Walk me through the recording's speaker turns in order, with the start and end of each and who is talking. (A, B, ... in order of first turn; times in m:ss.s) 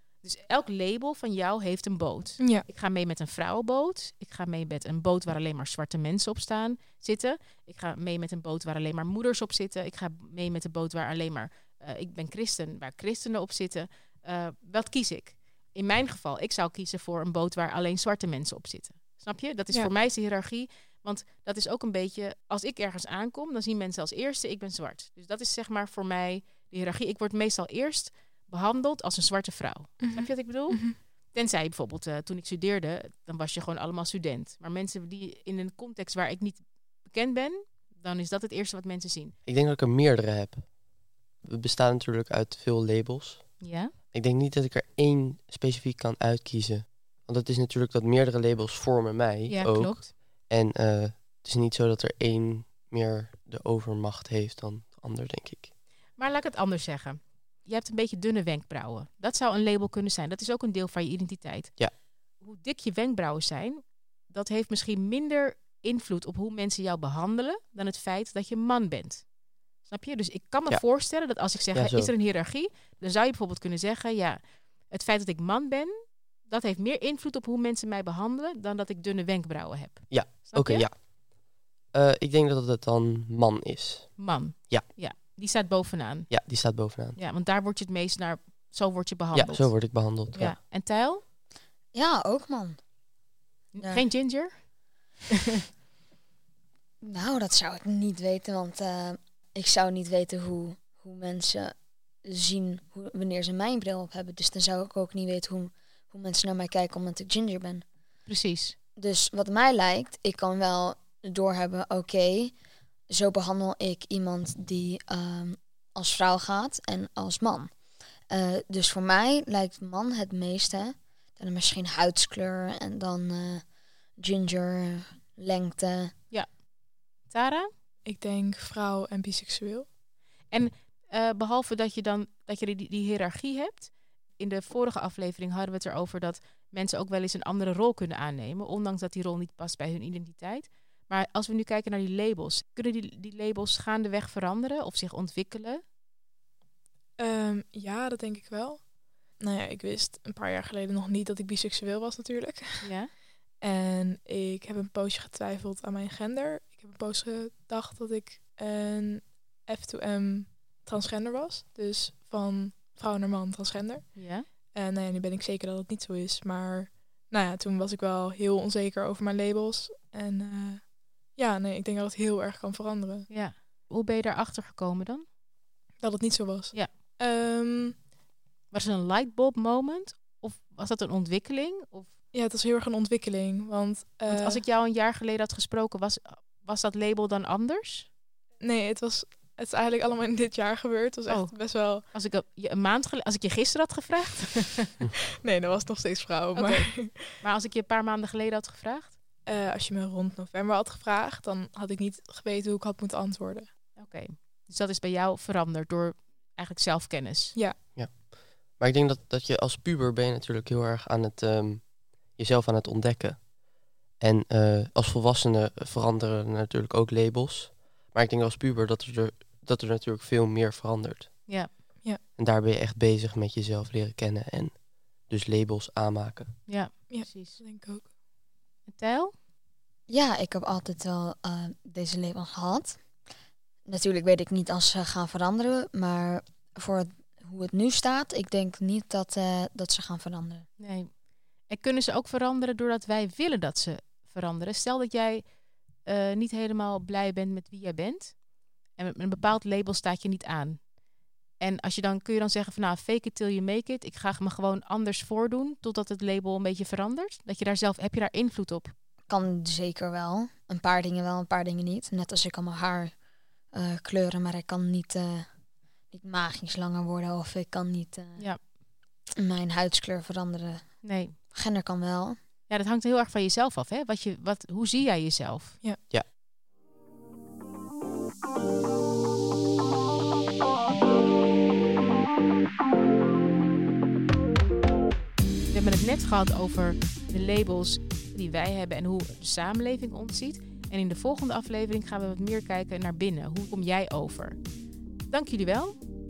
0:00.2-0:39.3 A
0:02.4-0:02.6 B
0:30.0-0:31.0 B
0:39.4-0:40.6 C
0:41.4-0:55.7 C
0:43.6-0:43.9 A
0:49.5-0:50.1 A
0:56.2-1:01.7 A
1:02.4-1:09.2 A
1:09.8-1:20.8 A
1:10.7-1:12.1 C
1:20.1-1:24.8 C
1:24.2-1:26.4 A
1:26.3-1:27.2 C
1:27.2-1:31.2 A
1:29.3-1:30.6 C
1:31.9-1:32.8 D
1:33.8-1:34.5 A
1:37.0-1:47.8 D
1:48.2-1:48.7 A
1:49.0-1:52.5 D
1:53.1-1:57.7 D
1:58.3-2:03.6 D
2:04.2-2:06.1 D
2:07.3-2:07.7 A
2:08.0-2:09.9 B
2:10.5-2:25.8 A
2:27.2-2:28.9 B
2:29.4-2:32.9 B
2:32.8-2:33.1 A
2:33.6-2:53.3 B
2:44.1-2:44.5 A
2:53.3-2:55.2 A
2:56.0-2:58.0 B
2:58.7-3:02.1 A
3:02.3-3:04.6 B
3:04.3-3:08.1 A
3:08.6-3:12.0 B
3:11.3-3:11.5 A
3:12.1-3:15.0 A
3:15.4-3:17.4 B
3:16.5-3:16.9 A
3:17.4-3:19.1 A
3:19.4-3:23.7 B
3:24.0-3:27.6 A
3:28.0-3:33.5 C
3:34.2-3:41.3 C
3:42.4-3:46.5 C
3:46.7-3:47.6 A
3:47.1-3:48.0 B
3:48.9-3:49.3 A
3:50.1-3:53.0 D
3:53.9-4:00.6 D
4:00.8-4:01.1 A
4:01.7-4:05.4 A
4:06.0-4:08.4 A
4:09.0-4:10.8 A
4:11.6-4:18.9 A
4:19.3-4:23.1 D
4:23.7-4:25.5 D
4:26.1-4:28.4 D
4:29.4-4:30.9 D
4:31.0-4:31.3 A
4:31.5-4:32.4 D
4:32.7-4:35.8 A
4:45.7-4:54.6 A
4:55.3-4:56.0 A